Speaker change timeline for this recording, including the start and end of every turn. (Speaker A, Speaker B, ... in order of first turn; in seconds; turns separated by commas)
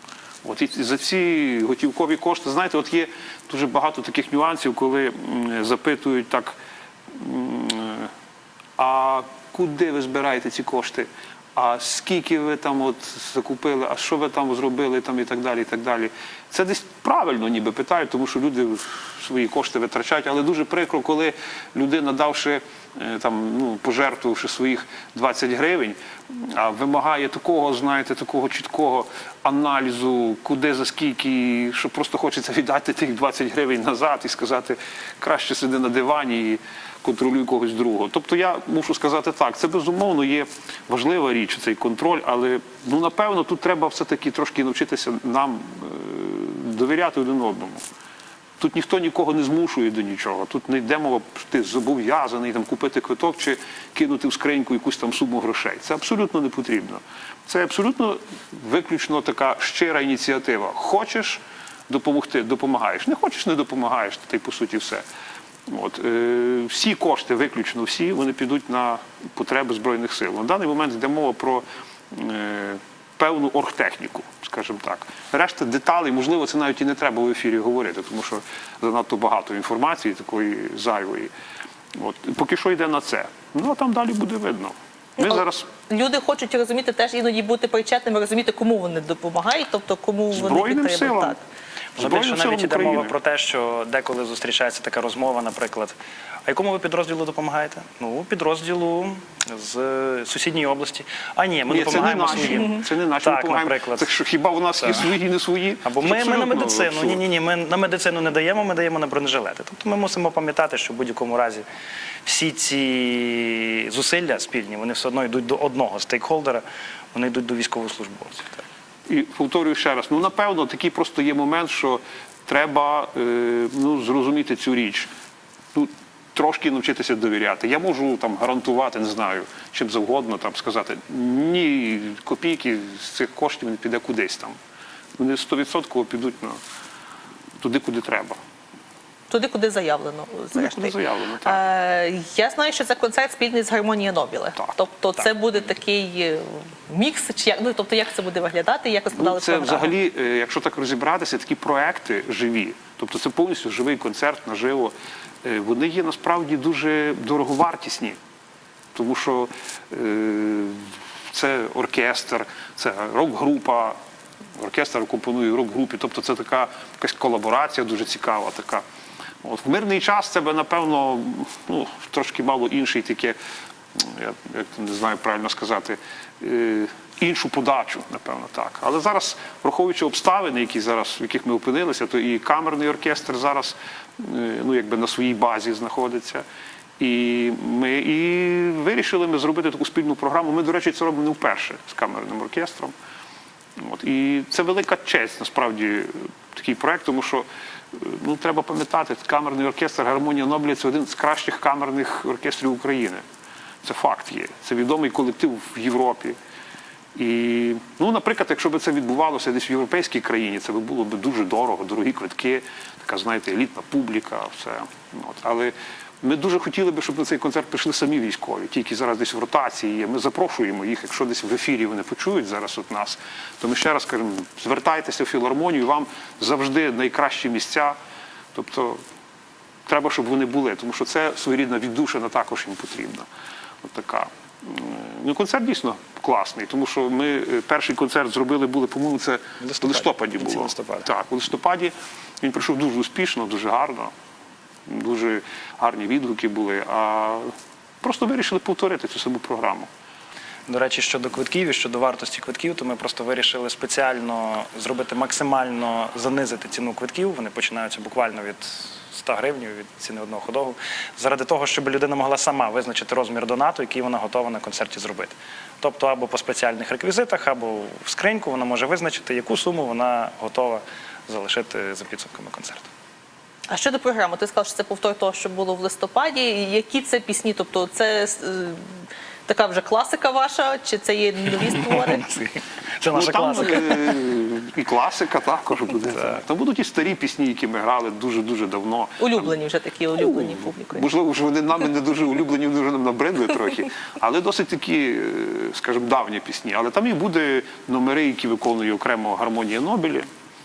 Speaker A: 0.4-6.6, Speaker A: 7.1-8.1, Speaker A: 8.8-47.8, Speaker A: 48.6-65.0, Speaker A: 65.7-81.3, Speaker A: 81.9-85.7, Speaker B: 85.2-91.4, Speaker A: 90.3-91.4, Speaker C: 92.0-95.9, Speaker A: 92.0-93.1, Speaker C: 96.5-104.1, Speaker A: 101.7-107.2, Speaker B: 102.5-102.7, Speaker C: 105.8-111.6, Speaker C: 112.2-116.6, Speaker C: 117.1-118.6, Speaker A: 119.1-125.1, Speaker A: 125.7-134.6, Speaker A: 135.2-136.6, Speaker A: 137.6-138.4, Speaker B: 139.3-149.9, Speaker A: 140.5-141.6, Speaker A: 149.1-158.2, Speaker A: 158.9-164.0, Speaker A: 164.6-168.8, Speaker A: 169.4-173.3, Speaker A: 173.9-186.4, Speaker A: 187.0-192.9, Speaker A: 193.8-203.2, Speaker A: 203.8-206.3, Speaker A: 207.1-227.9, Speaker A: 228.5-229.0, Speaker A: 229.8-233.3, Speaker A: 233.8-244.1, Speaker C: 239.6-241.1, Speaker A: 244.8-249.9, Speaker C: 250.7-272.9, Speaker B: 273.7-282.3, Speaker C: 281.8-284.2, Speaker A: 283.1-289.5, Speaker B: 289.2-291.1, Speaker A: 290.1-300.3